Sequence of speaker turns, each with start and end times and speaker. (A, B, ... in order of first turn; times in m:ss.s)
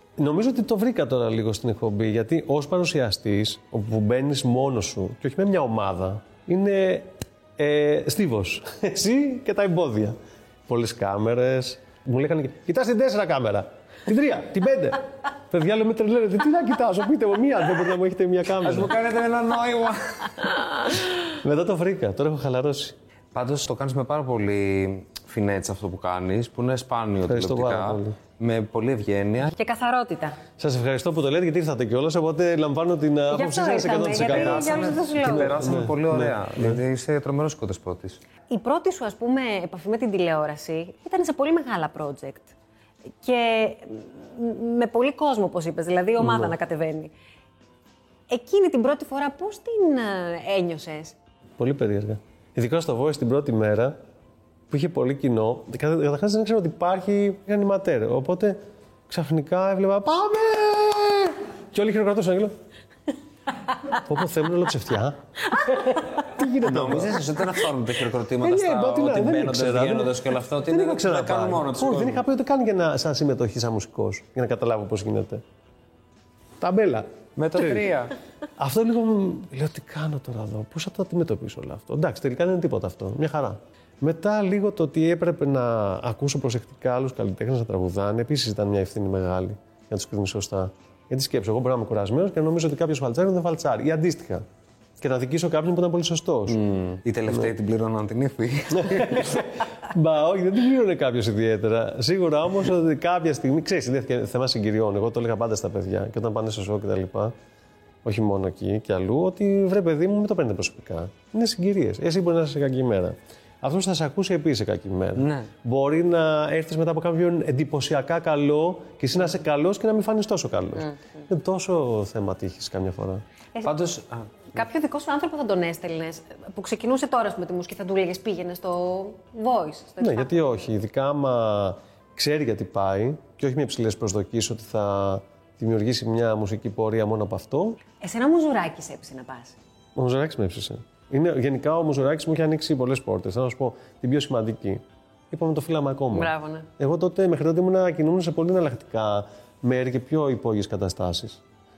0:00.2-0:10.2 A
0:10.7-0:18.9 A
0:18.6-0:20.8 B
0:21.2-0:22.9 A
0:23.3-0:29.5 B
0:27.2-0:28.2 A
0:29.5-0:30.4 C
0:30.6-0:36.8 A
0:33.3-0:35.8 C
0:34.2-0:38.2 B
0:38.5-0:42.5 C
0:43.2-0:47.1 C
0:46.2-0:46.5 A
0:48.3-0:51.2 C
0:51.6-0:53.9 A
0:54.7-0:58.6 A
0:59.1-1:02.5 A
1:03.9-1:07.3 A
1:06.6-1:12.2 B
1:08.4-1:15.4 A
1:16.6-1:17.9 A
1:17.4-1:18.1 B
1:18.6-1:34.4 A
1:35.0-1:36.6 A
1:36.5-1:39.4 B
1:38.8-1:47.3 A
1:48.0-2:03.2 A
1:55.2-1:55.5 B
2:03.6-2:04.3 B
2:04.5-2:10.5 C
2:10.0-2:17.8 A
2:18.0-2:19.6 C
2:20.0-2:31.4 A
2:26.1-2:26.7 C